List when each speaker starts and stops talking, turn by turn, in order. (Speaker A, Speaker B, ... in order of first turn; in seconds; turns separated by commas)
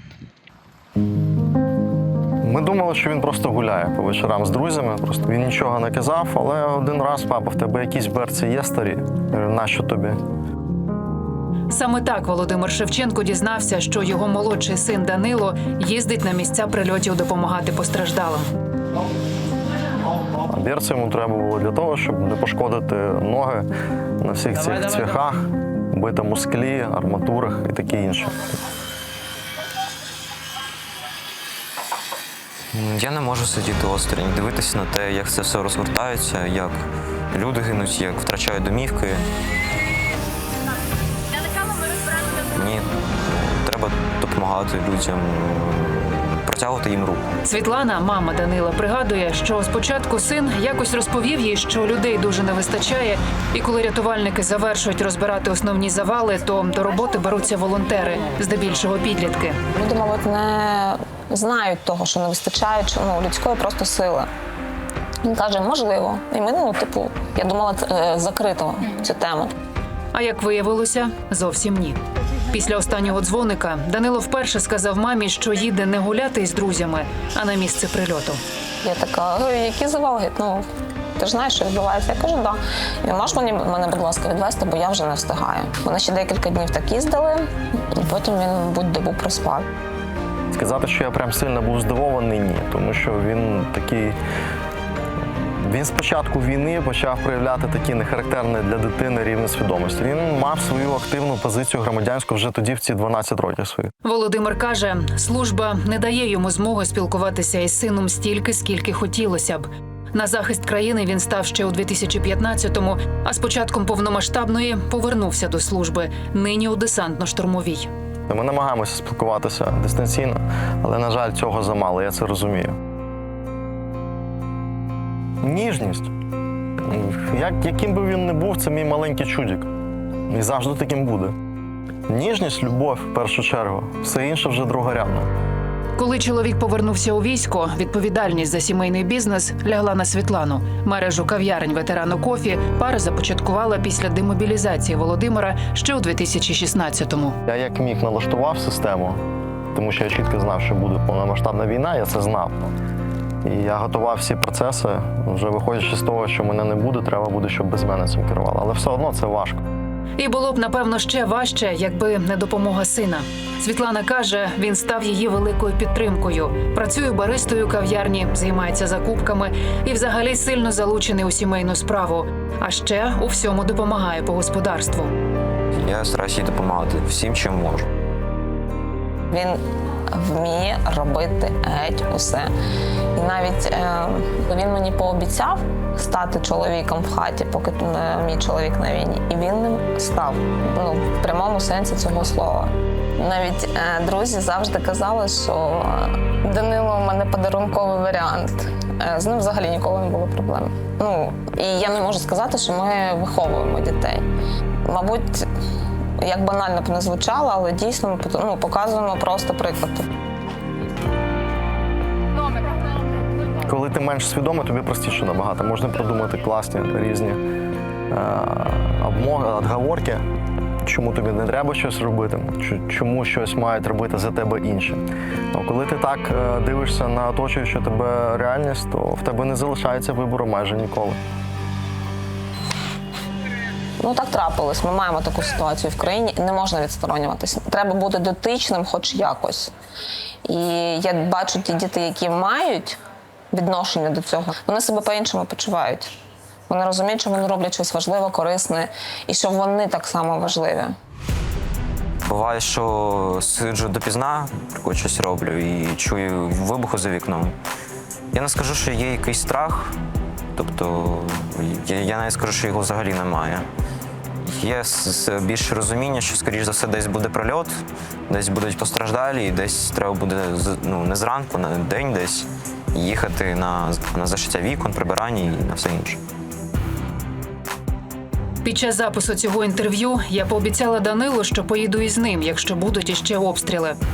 Speaker A: 2.4-10.2, Speaker B: 11.7-18.5, Speaker A: 20.4-23.7, Speaker A: 24.2-28.4, Speaker C: 32.7-39.2, Speaker C: 42.4-47.3, Speaker B: 47.5-59.6, Speaker D: 59.7-64.3, Speaker D: 65.2-69.5, Speaker B: 70.1-78.4, Speaker D: 78.8-89.7, Speaker A: 90.5-94.2, Speaker A: 95.6-103.9, Speaker B: 104.0-117.9, Speaker A: 118.3-122.8, Speaker A: 125.4-126.1, Speaker A: 126.8-129.7, Speaker A: 130.3-131.3, Speaker A: 132.1-135.3, Speaker B: 136.0-147.4, Speaker A: 147.5-149.2, Speaker A: 149.7-152.6, Speaker A: 153.4-159.6, Speaker B: 160.2-175.1, Speaker C: 175.7-177.9, Speaker D: 179.3-182.5, Speaker D: 183.2-204.3, Speaker D: 204.8-205.5, Speaker D: 206.2-210.1, Speaker A: 213.6-217.4, Speaker A: 218.1-220.2, Speaker A: 220.8-231.2, Speaker D: 234.0-239.7, Speaker D: 240.4-243.0, Speaker D: 243.5-246.1, Speaker D: 246.7-250.9, Speaker C: 252.3-257.6, Speaker C: 258.3-260.0, Speaker C: 260.6-263.7, Speaker C: 264.4-267.7, Speaker C: 268.3-276.2, Speaker B: 278.6-284.0